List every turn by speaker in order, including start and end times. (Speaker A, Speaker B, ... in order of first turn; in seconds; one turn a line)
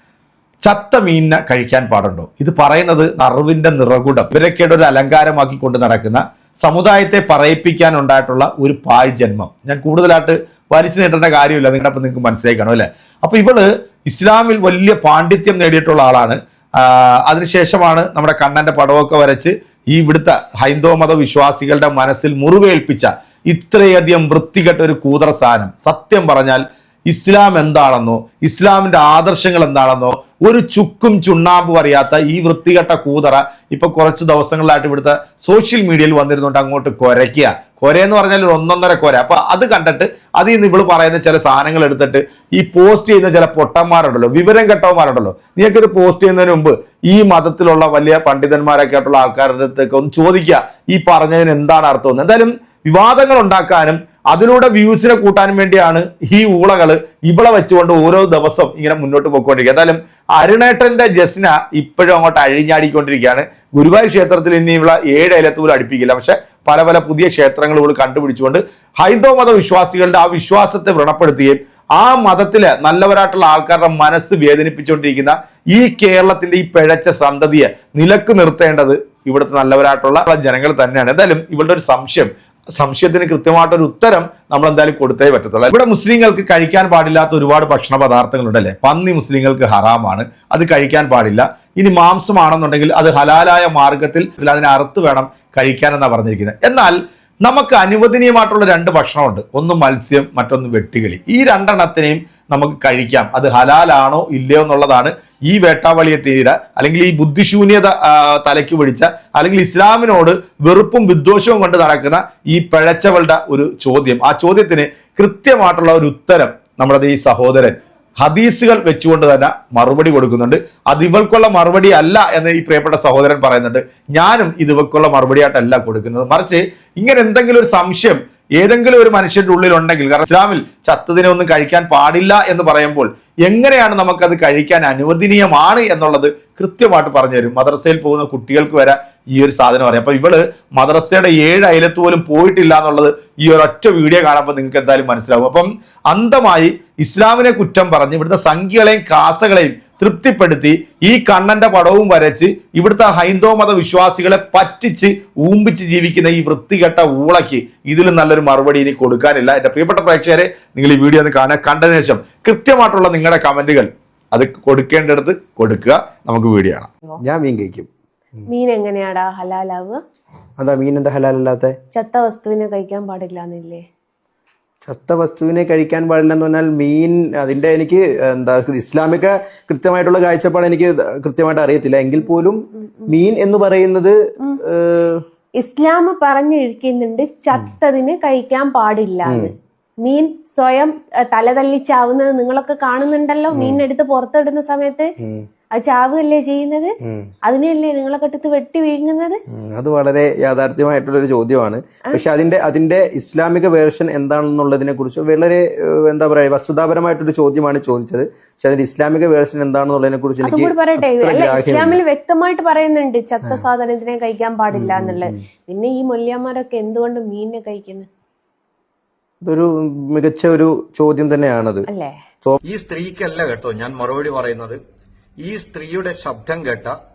Speaker A: 0.6-166.9
Speaker B: 167.2-168.4
Speaker C: 168.5-170.0
Speaker B: 170.6-171.8
Speaker C: 171.9-173.8
Speaker B: 174.8-185.2
Speaker C: 182.3-183.1
Speaker C: 185.6-195.1
Speaker B: 189.2-189.5
Speaker B: 193.5-193.8
Speaker B: 195.2-195.5
Speaker C: 195.7-196.9
Speaker B: 197.0-197.3
Speaker C: 197.4-199.4
Speaker B: 199.5-212.0
Speaker C: 210.4-218.1
Speaker B: 214.7-215.4
Speaker B: 219.4-221.9
Speaker C: 221.9-222.1
Speaker D: 222.6-224.8
Speaker D: 225.4-226.9